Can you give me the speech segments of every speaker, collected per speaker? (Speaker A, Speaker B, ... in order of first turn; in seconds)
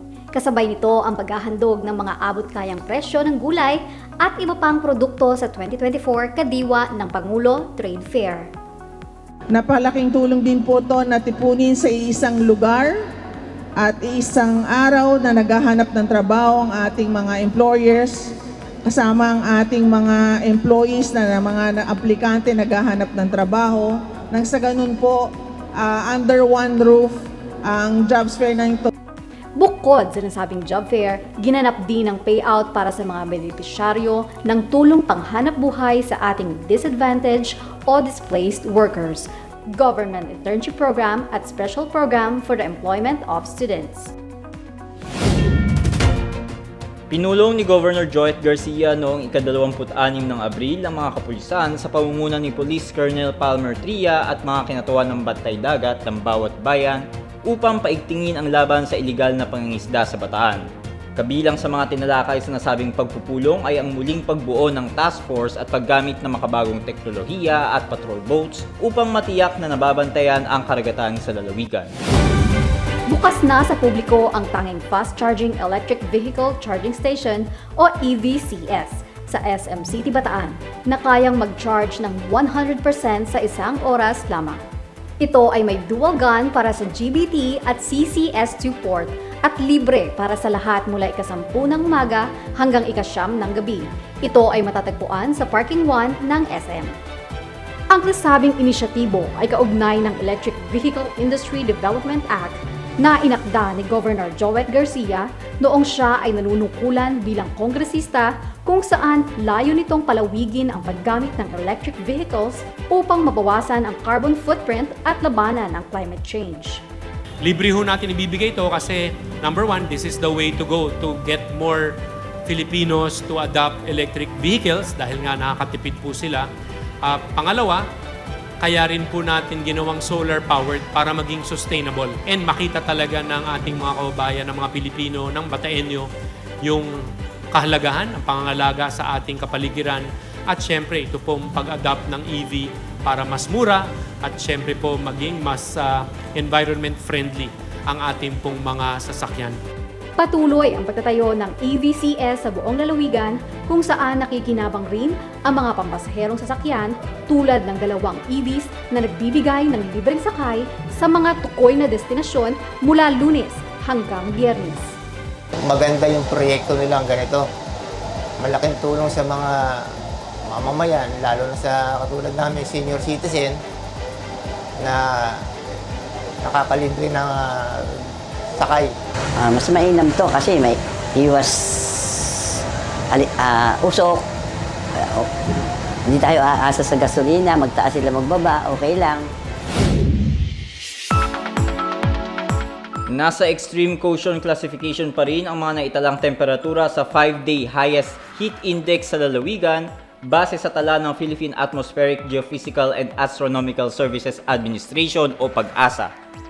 Speaker A: 0.3-8.5, 29.6-44.1, 73.1-84.6, 85.2-96.9, 97.9-116.8, 150.2-164.9
Speaker B: 9.5-12.9, 13.8-18.3, 18.8-27.1, 27.7-28.9
Speaker C: 47.1-60.6, 61.1-71.9, 193.1-206.1
Speaker D: 117.4-126.5, 127.0-127.8, 128.6-136.1, 136.6-149.6
Speaker E: 165.7-167.4, 168.4-169.9, 170.5-173.6, 174.8-175.4, 176.4-177.9, 178.6-178.9
Speaker F: 179.4-182.5, 183.1-184.2, 185.0-185.3, 186.1-189.3